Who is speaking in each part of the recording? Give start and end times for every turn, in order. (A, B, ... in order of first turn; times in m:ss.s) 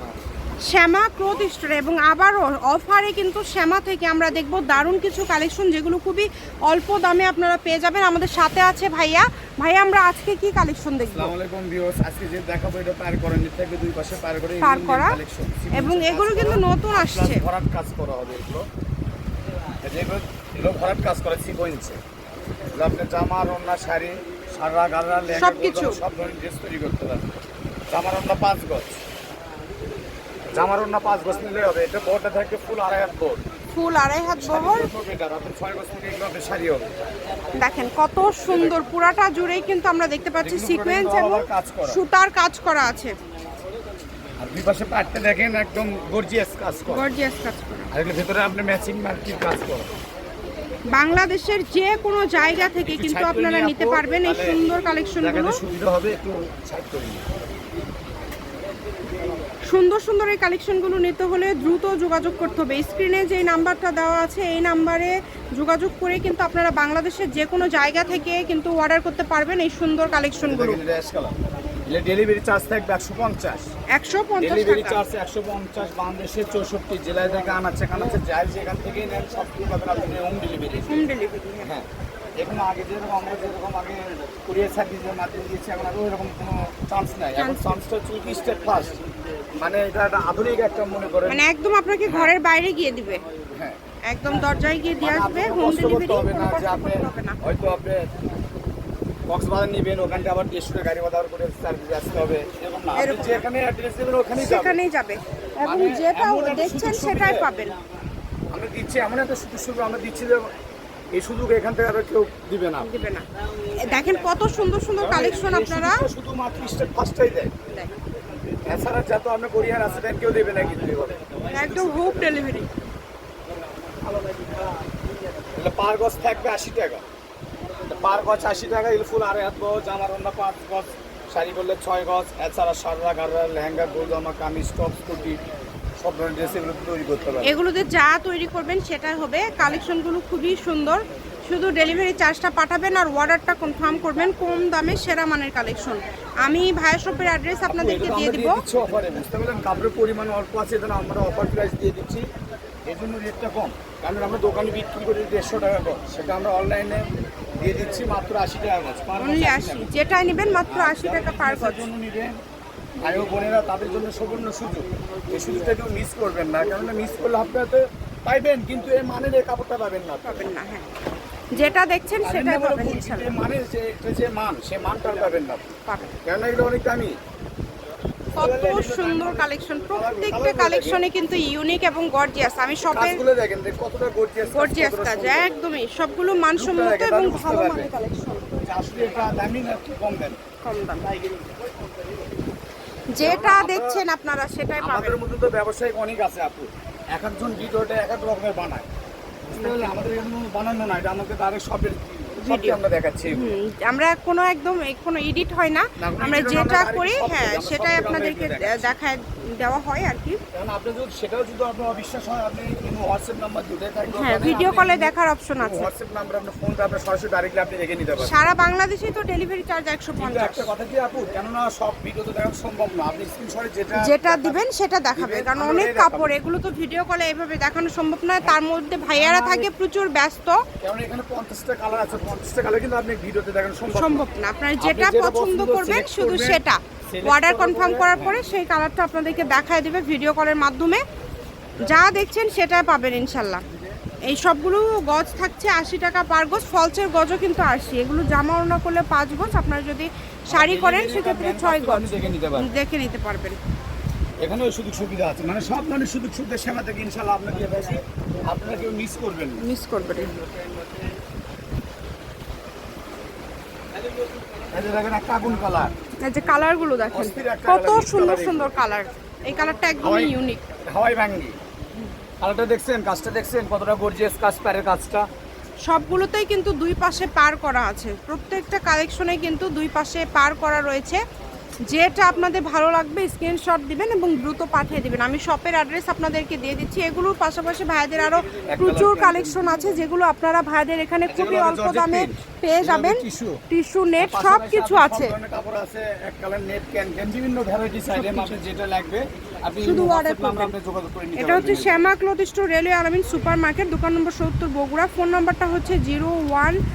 0:00.6-0:11.3 A
0:11.1-0:18.6 B
0:14.6-0:15.2 A
0:15.7-0:17.4 A
0:19.8-0:22.0 B
0:22.8-0:27.3 B
0:25.3-0:26.0 A
0:27.9-0:29.0 B
0:30.5-0:33.4 B
0:33.7-0:34.9 A
0:34.4-0:36.9 B
0:37.5-0:43.1 A
0:38.5-0:38.8 B
0:40.4-0:42.0 B
0:44.4-0:47.0 B
0:46.9-0:47.9 A
0:47.9-0:49.9 B
0:50.9-0:55.6 A
0:52.8-0:54.7 B
0:55.2-0:57.2 B
0:59.7-1:10.8 A
1:10.4-1:11.3 B
1:11.9-1:13.7 B
1:14.0-1:15.0 A
1:14.4-1:21.1 B
1:20.9-1:21.7 A
1:21.6-1:21.9 B
1:22.4-1:28.9 B
1:27.3-1:27.8 A
1:29.6-1:31.4 B
1:31.2-1:33.2 A
1:32.1-1:32.3 B
1:33.5-1:33.8 B
1:34.1-1:37.4 A
1:35.0-1:38.1 B
1:39.3-1:44.8 B
1:42.9-1:43.4 A
1:44.4-1:47.8 A
1:45.6-1:47.5 B
1:48.5-1:50.5 B
1:51.1-1:52.9 B
1:52.8-1:56.0 A
1:55.0-1:57.5 B
1:58.6-2:02.5 B
2:01.5-2:02.7 A
2:04.0-2:04.7 B
2:05.6-2:07.0 B
2:07.9-2:15.4 B
2:16.0-2:17.6 B
2:17.4-2:28.6 A
2:27.7-2:32.2 B
2:32.9-2:39.9 B
2:39.2-2:41.9 A
2:40.7-2:42.3 B
2:43.0-2:50.5 B
2:50.2-2:50.9 A
2:51.5-2:53.4 A
2:52.2-2:55.7 B
2:55.9-2:56.1 A
2:56.2-2:57.2 B
2:58.4-3:03.2 A
2:58.4-3:01.0 B
3:02.9-3:05.5 B
3:04.5-3:08.6 A
3:06.6-3:07.9 B
3:08.6-3:10.4 B
3:10.6-3:11.1 A
3:11.2-3:11.4 B
3:13.1-3:15.2 A
3:13.2-3:14.0 B
3:14.8-3:18.9 B
3:19.5-3:23.6 B
3:19.6-3:19.9 A
3:22.4-3:22.8 A
3:23.3-3:30.4 A
3:26.0-3:28.9 B
3:30.5-3:38.4 B
3:34.1-3:35.9 A
3:38.2-3:40.7 A
3:40.2-3:44.6 B
3:43.9-3:50.6 A
3:45.2-3:46.3 B
3:48.4-3:49.7 B
3:50.8-3:54.2 B
3:53.9-4:01.0 A
3:54.8-3:58.4 B
4:01.8-4:03.6 A
4:04.2-4:13.6 A
4:10.5-4:12.7 B
4:14.4-4:19.6 B
4:19.6-4:20.3 A
4:24.7-4:25.9 B
4:26.2-4:30.6 A
4:27.1-4:28.8 B
4:30.0-4:31.6 B
4:32.4-4:35.3 B
4:35.9-4:41.2 A
4:41.9-4:55.3 A
4:48.7-4:50.1 B
4:51.3-4:53.6 B
4:54.2-5:02.0 B
4:58.1-4:58.6 A
4:59.8-5:00.7 A
5:01.4-5:06.8 A